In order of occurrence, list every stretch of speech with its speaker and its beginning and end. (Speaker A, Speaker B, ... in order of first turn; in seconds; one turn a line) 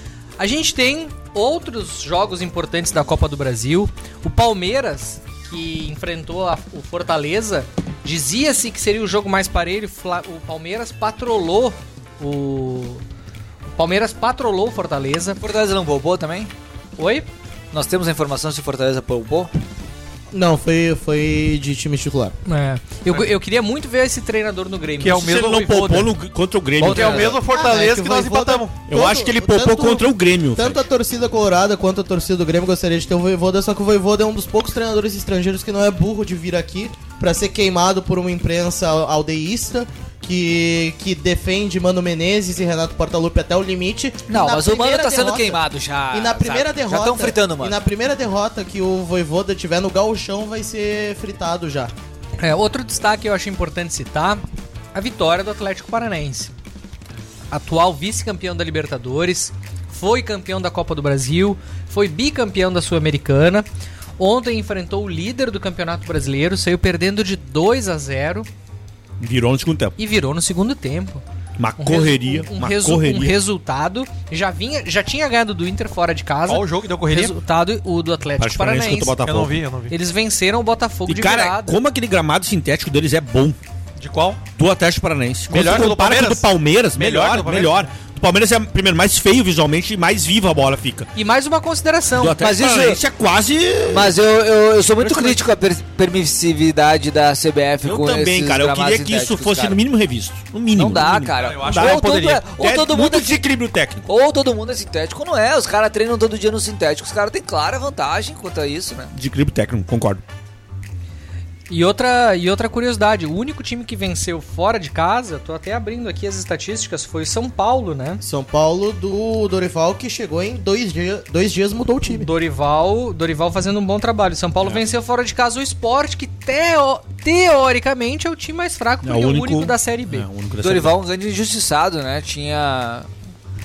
Speaker A: 0.4-13.0
Speaker A: 13.8-15.4
Speaker B: 15.4-16.5
Speaker A: 17.0-17.3
Speaker B: 17.7-19.5
Speaker C: 20.3-22.3
Speaker A: 22.4-26.1
Speaker D: 25.0-26.1
Speaker E: 25.1-27.4
Speaker D: 26.8-28.8
Speaker C: 27.1-45.6
Speaker E: 28.9-30.8
Speaker B: 44.3-47.8
Speaker C: 46.1-51.9
Speaker A: 52.4-54.4
Speaker A: 54.9-56.5
Speaker A: 57.5-63.6
Speaker A: 64.2-68.5
Speaker E: 69.2-70.0
Speaker A: 70.0-71.2
Speaker E: 71.6-73.3
Speaker A: 71.8-79.1
Speaker D: 76.5-77.4
Speaker E: 78.4-79.6
Speaker D: 79.2-79.9
Speaker A: 79.9-81.8
Speaker E: 81.1-83.6
Speaker D: 84.0-84.4
Speaker E: 84.5-91.1
Speaker D: 85.5-88.0
Speaker A: 91.2-92.4
Speaker E: 92.2-94.1
Speaker B: 92.3-93.0
Speaker B: 93.9-99.8
Speaker E: 97.8-104.1
Speaker B: 100.7-103.4
Speaker D: 101.3-102.5
Speaker B: 104.1-109.1
Speaker E: 109.1-110.2
Speaker A: 111.7-118.2
Speaker C: 118.2-122.3
Speaker A: 122.0-130.2
Speaker E: 129.0-130.9
Speaker B: 130.6-133.1